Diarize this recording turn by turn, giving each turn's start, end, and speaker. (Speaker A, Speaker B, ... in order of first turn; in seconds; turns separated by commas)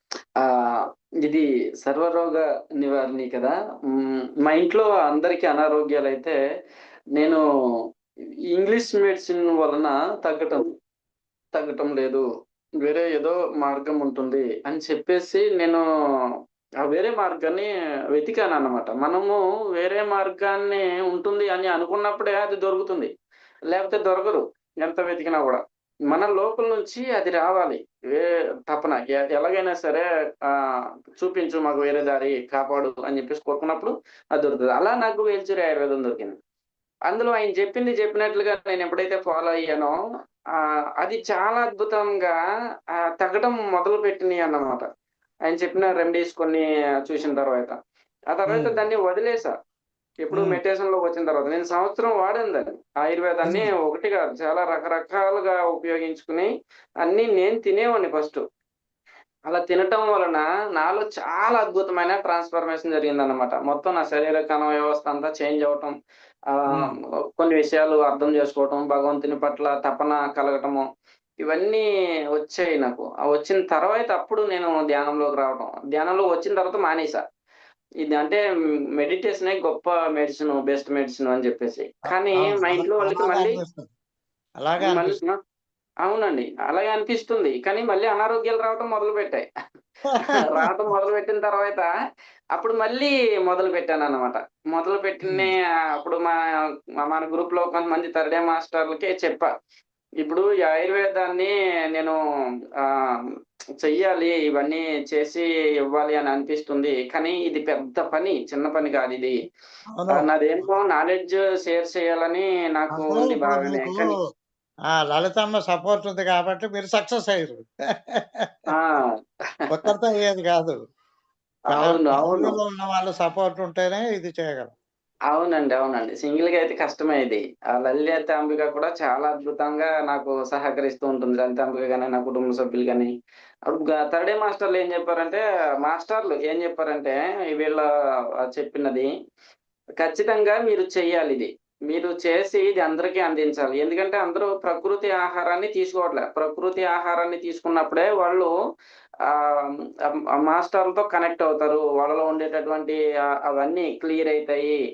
Speaker A: 0.4-6.4, Speaker A: 7.2-7.4, Speaker A: 8.6-10.7, Speaker A: 11.6-12.2, Speaker A: 12.8-15.8, Speaker A: 16.9-23.1, Speaker A: 23.7-36.4, Speaker A: 37.1-40.0, Speaker A: 41.0-42.4, Speaker A: 43.2-44.9, Speaker A: 45.5-47.8, Speaker A: 48.3-49.5, Speaker B: 48.5-48.8, Speaker A: 50.2-56.5, Speaker B: 50.3-50.6, Speaker A: 57.0-58.4, Speaker A: 59.5-65.9, Speaker A: 66.7-70.8, Speaker A: 71.5-71.8, Speaker A: 72.4-77.2, Speaker A: 78.0-78.4, Speaker A: 79.0-83.6, Speaker B: 82.3-83.9, Speaker B: 84.6-85.2, Speaker A: 84.8-85.4, Speaker A: 86.0-89.5, Speaker B: 90.1-90.7, Speaker A: 90.2-91.9, Speaker A: 92.6-96.3, Speaker A: 97.0-99.5, Speaker A: 100.2-102.2, Speaker A: 103.8-109.4, Speaker B: 110.0-110.2, Speaker A: 110.1-114.1, Speaker B: 113.0-114.1, Speaker B: 114.9-118.6, Speaker A: 118.7-119.0, Speaker B: 119.7-120.8, Speaker A: 121.7-122.6, Speaker B: 121.7-124.7, Speaker A: 125.3-133.1, Speaker A: 133.7-137.8, Speaker A: 138.5-139.1, Speaker A: 140.0-148.5, Speaker A: 149.3-149.7, Speaker A: 150.4-154.8